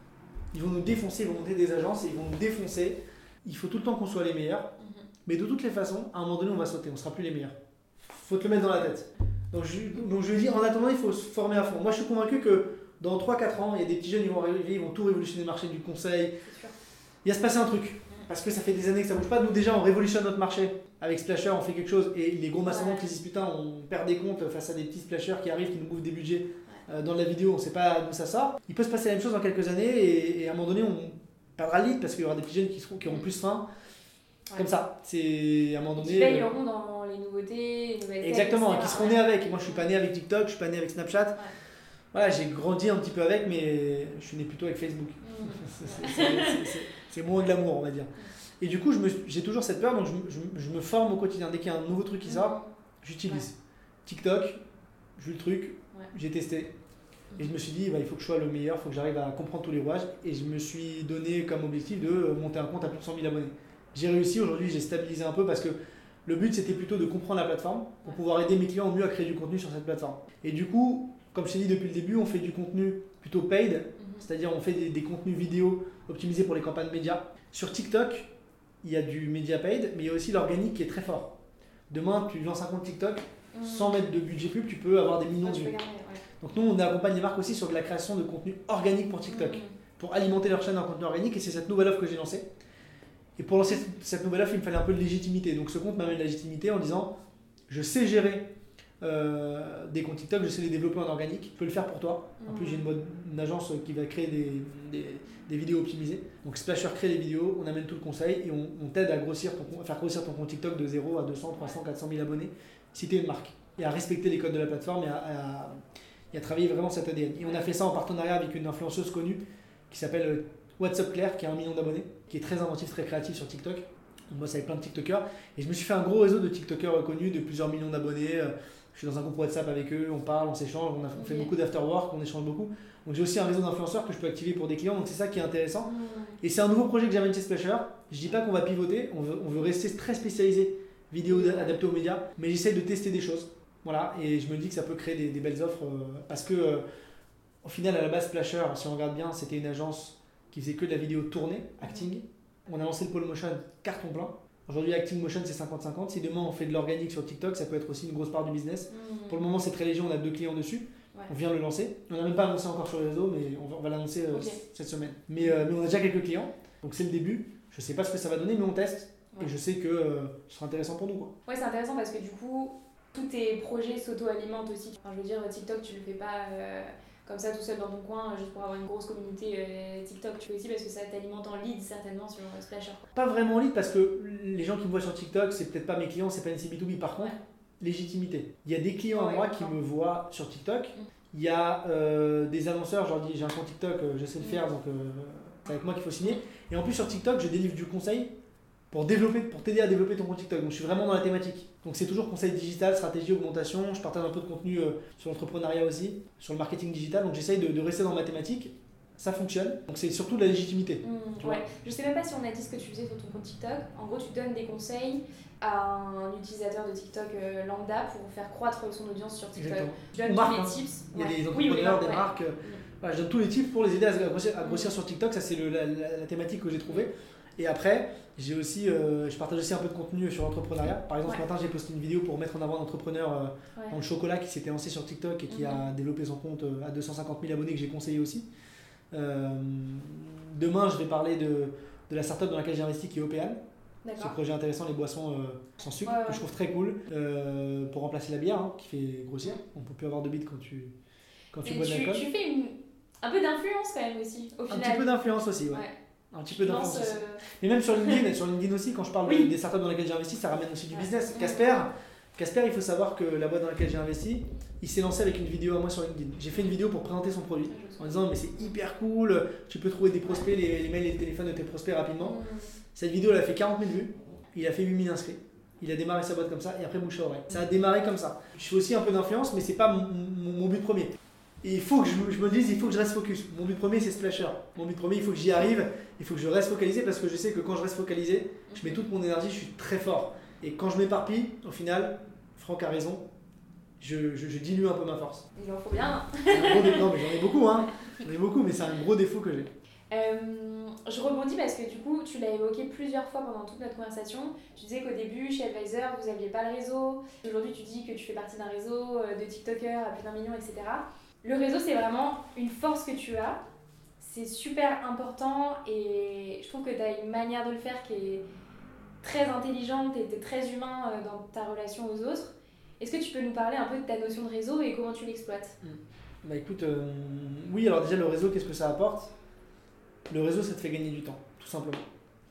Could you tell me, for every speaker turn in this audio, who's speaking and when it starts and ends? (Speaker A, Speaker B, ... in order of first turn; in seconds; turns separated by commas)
Speaker A: 0.5-4.7, Speaker B: 4.8-5.1, Speaker A: 5.3-16.4, Speaker B: 16.5-16.7, Speaker A: 17.2-33.7, Speaker B: 22.6-23.1, Speaker A: 34.5-36.5, Speaker B: 36.0-39.8, Speaker A: 38.2-41.4, Speaker A: 42.1-54.6, Speaker B: 45.2-46.7, Speaker B: 52.2-52.7, Speaker A: 55.2-56.7, Speaker A: 57.4-78.3, Speaker B: 74.0-74.2, Speaker A: 78.8-81.3, Speaker A: 81.9-85.7, Speaker B: 83.5-84.0, Speaker B: 85.4-86.2, Speaker A: 86.4-92.5, Speaker B: 89.3-89.8, Speaker A: 93.4-97.1, Speaker A: 97.7-98.5, Speaker A: 99.0-115.7, Speaker B: 102.4-102.9, Speaker A: 116.3-146.8, Speaker B: 131.2-131.5, Speaker B: 135.9-136.4, Speaker B: 141.3-141.8, Speaker A: 147.6-171.3, Speaker B: 158.9-159.4, Speaker B: 164.3-164.6, Speaker B: 171.5-183.1, Speaker A: 183.2-198.3, Speaker B: 189.1-189.7, Speaker A: 198.9-211.6, Speaker B: 211.0-222.8, Speaker A: 219.6-238.5, Speaker B: 224.6-225.0, Speaker B: 235.5-235.9, Speaker A: 239.1-243.6, Speaker B: 244.1-244.4, Speaker A: 244.2-250.9, Speaker B: 246.0-246.4, Speaker A: 251.5-252.2, Speaker B: 251.6-255.1, Speaker A: 254.7-272.4, Speaker B: 256.5-257.4, Speaker B: 259.2-259.5, Speaker B: 260.9-261.9, Speaker B: 267.7-268.2, Speaker B: 272.2-272.7, Speaker A: 272.9-293.2, Speaker B: 288.7-289.1, Speaker A: 294.0-295.5, Speaker B: 295.6-297.4, Speaker A: 296.4-299.7, Speaker B: 298.0-298.2, Speaker B: 300.1-313.6, Speaker B: 314.2-318.4, Speaker B: 319.2-325.8, Speaker A: 325.8-329.3, Speaker A: 330.3-332.1